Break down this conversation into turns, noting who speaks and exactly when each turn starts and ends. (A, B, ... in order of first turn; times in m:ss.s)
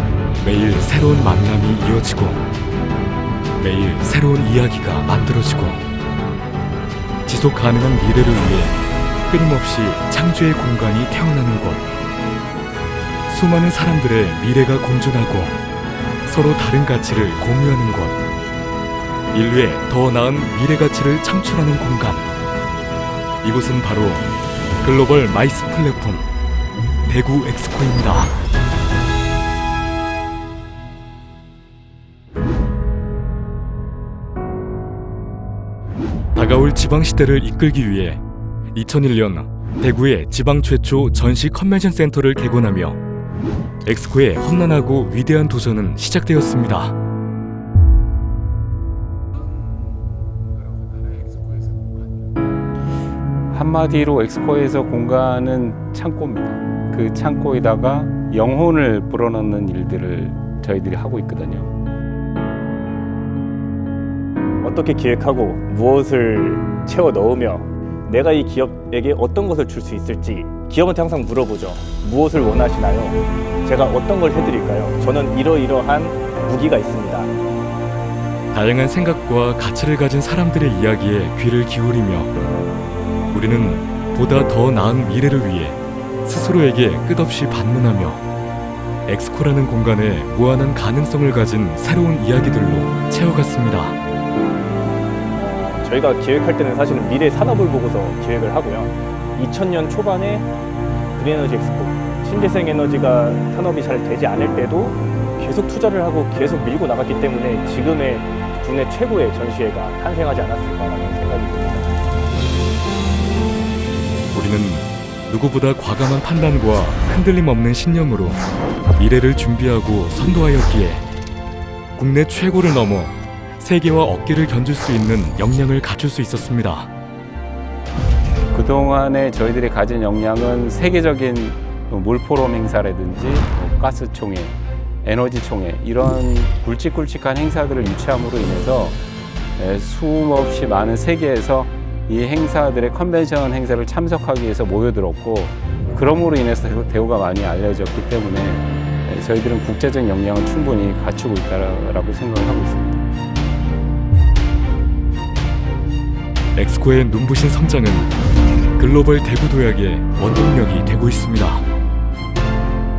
0:00.4-0:02.4 A
0:03.6-0:05.8 A
0:07.2-0:08.8 A
0:09.3-0:11.9 A
0:13.3-0:15.6 A
0:16.2-0:18.2 A
0:19.3-0:22.3 A
0:23.4-0:24.3 A
0:24.8-0:26.3 A
0:27.1-0:28.4 A
0:36.3-0:38.2 A
0:38.7-0:43.0 A
0:43.8-0:46.9 A
0:53.5-1:01.7 B
1:04.6-1:17.3 C
1:18.5-1:22.3 A
1:23.3-1:28.2 A
1:29.0-1:34.0 A
1:35.4-1:40.5 C
1:41.2-1:51.9 C
1:54.3-1:58.4 A
1:59.0-2:01.0 A
2:02.0-2:06.9 A
2:08.5-2:19.0 B
2:19.6-2:33.0 B
2:36.5-2:38.1 A
2:38.8-2:41.6 A